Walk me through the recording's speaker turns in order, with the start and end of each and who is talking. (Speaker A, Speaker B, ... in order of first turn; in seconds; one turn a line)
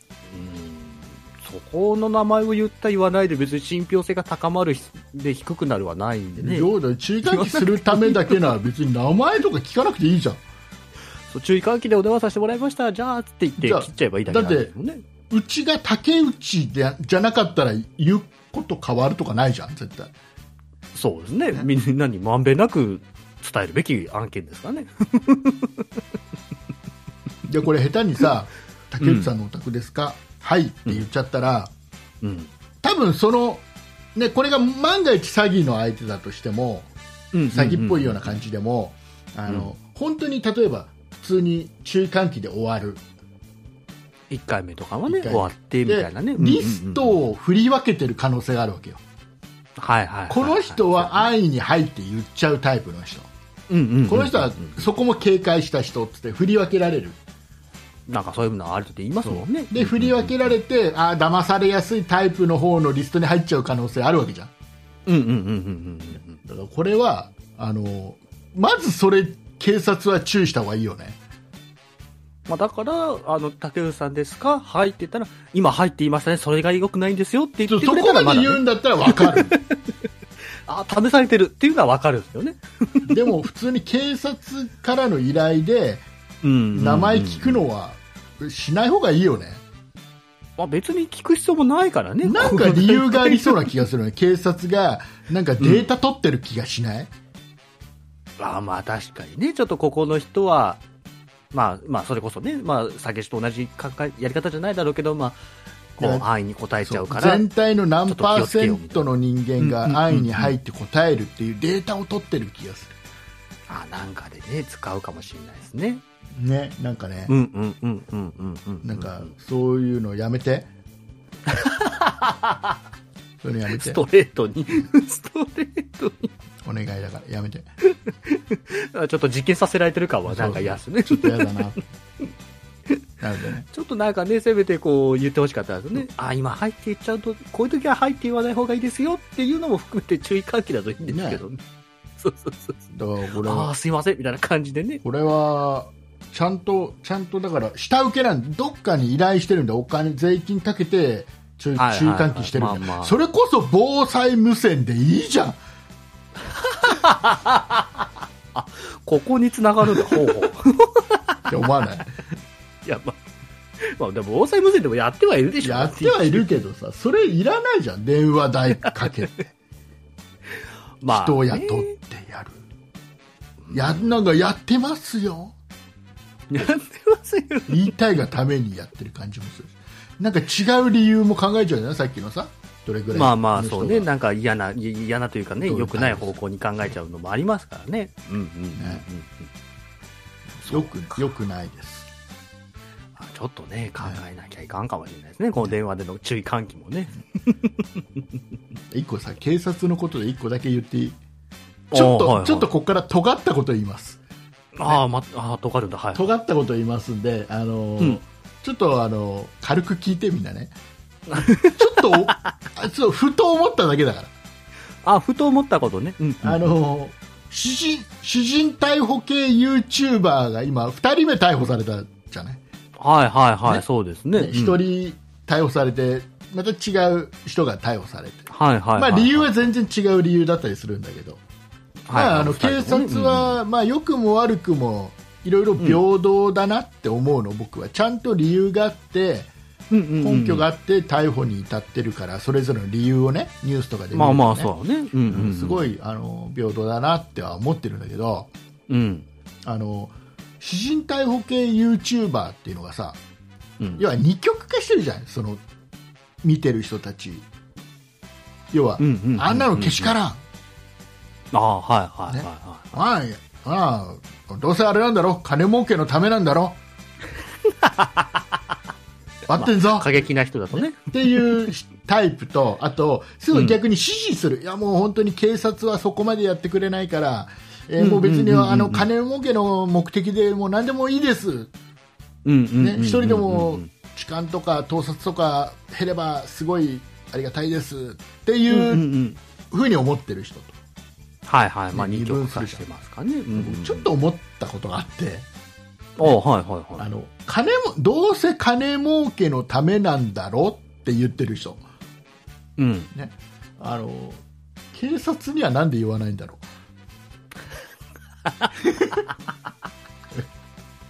Speaker A: 0.3-6.7
Speaker B: 6.4-10.4
Speaker A: 7.2-8.4
Speaker A: 11.3-15.0
Speaker B: 13.6-14.7
Speaker B: 15.3-20.1
Speaker A: 20.9-25.8
Speaker B: 27.4-31.7
Speaker A: 29.0-29.3
Speaker A: 32.2-32.5
Speaker B: 32.8-36.9
Speaker A: 37.3-38.3
Speaker B: 37.5-43.0
Speaker A: 44.3-47.1
Speaker B: 45.1-49.0
Speaker A: 49.8-51.3
Speaker B: 50.3-53.3
Speaker A: 53.7-54.9
Speaker B: 54.1-57.2
Speaker A: 58.1-60.5
Speaker B: 59.2-64.5
Speaker A: 65.0-66.4
Speaker B: 66.4-71.2
Speaker A: 72.5-79.8
Speaker B: 77.7-79.5
Speaker A: 80.7-83.1
Speaker B: 83.1-86.0
Speaker A: 86.4-87.6
Speaker B: 86.7-89.6
Speaker A: 90.6-93.7
Speaker B: 92.2-97.1
Speaker A: 95.6-95.9
Speaker A: 98.4-100.8
Speaker A: 101.5-105.4
Speaker A: 106.0-107.4
Speaker B: 106.0-106.2
Speaker B: 106.8-113.0
Speaker A: 108.1-109.0
Speaker A: 109.6-110.5
Speaker A: 113.7-116.0
Speaker B: 116.3-117.3
Speaker A: 117.3-119.3
Speaker B: 118.8-120.7
Speaker A: 121.5-122.8
Speaker B: 123.4-124.0
Speaker A: 123.7-126.3
Speaker B: 126.6-127.7
Speaker A: 127.9-131.8
Speaker B: 130.3-131.8
Speaker B: 133.2-133.7
Speaker A: 133.7-141.6
Speaker B: 141.0-141.4
Speaker A: 142.2-142.8
Speaker B: 142.9-143.7
Speaker A: 143.4-145.0
Speaker B: 145.0-155.6
Speaker A: 151.8-153.1
Speaker A: 156.5-161.5
Speaker B: 161.5-162.2
Speaker A: 162.8-163.2
Speaker A: 163.8-166.6
Speaker B: 165.6-169.5
Speaker A: 171.0-171.9
Speaker B: 171.0-172.6
Speaker A: 173.7-174.1
Speaker B: 173.7-175.5
Speaker A: 176.5-177.9
Speaker B: 177.7-184.1
Speaker A: 183.1-189.5
Speaker B: 185.6-186.3
Speaker B: 188.8-189.0
Speaker A: 190.6-190.9
Speaker B: 190.6-192.1
Speaker A: 193.2-198.2
Speaker B: 198.9-201.2
Speaker A: 201.9-202.7
Speaker B: 201.9-204.2
Speaker A: 204.7-206.3
Speaker B: 206.1-210.7
Speaker A: 211.3-212.5
Speaker B: 211.6-214.3
Speaker A: 215.0-216.7
Speaker B: 216.4-222.6
Speaker A: 223.0-224.8
Speaker B: 224.3-231.4
Speaker A: 228.5-229.7
Speaker A: 232.1-233.6
Speaker B: 232.1-239.5
Speaker A: 239.9-240.7
Speaker B: 240.2-244.7
Speaker A: 244.1-245.9
Speaker B: 245.3-248.5
Speaker A: 248.9-249.3
Speaker B: 249.6-253.2
Speaker A: 253.8-254.0
Speaker B: 254.0-255.6
Speaker B: 256.4-257.5
Speaker B: 258.7-260.4
Speaker A: 259.0-260.1
Speaker A: 261.5-262.9
Speaker B: 262.3-266.8
Speaker A: 267.7-268.4
Speaker B: 269.5-281.7
Speaker A: 269.5-271.6
Speaker A: 278.0-279.1
Speaker A: 282.4-283.9
Speaker B: 282.8-289.1
Speaker A: 288.7-289.4
Speaker B: 289.7-290.7
Speaker A: 291.5-294.1
Speaker B: 291.9-292.8
Speaker B: 293.5-295.4
Speaker A: 296.2-297.1
Speaker B: 297.0-301.8
Speaker A: 302.8-303.1
Speaker B: 303.1-306.6
Speaker B: 308.8-309.2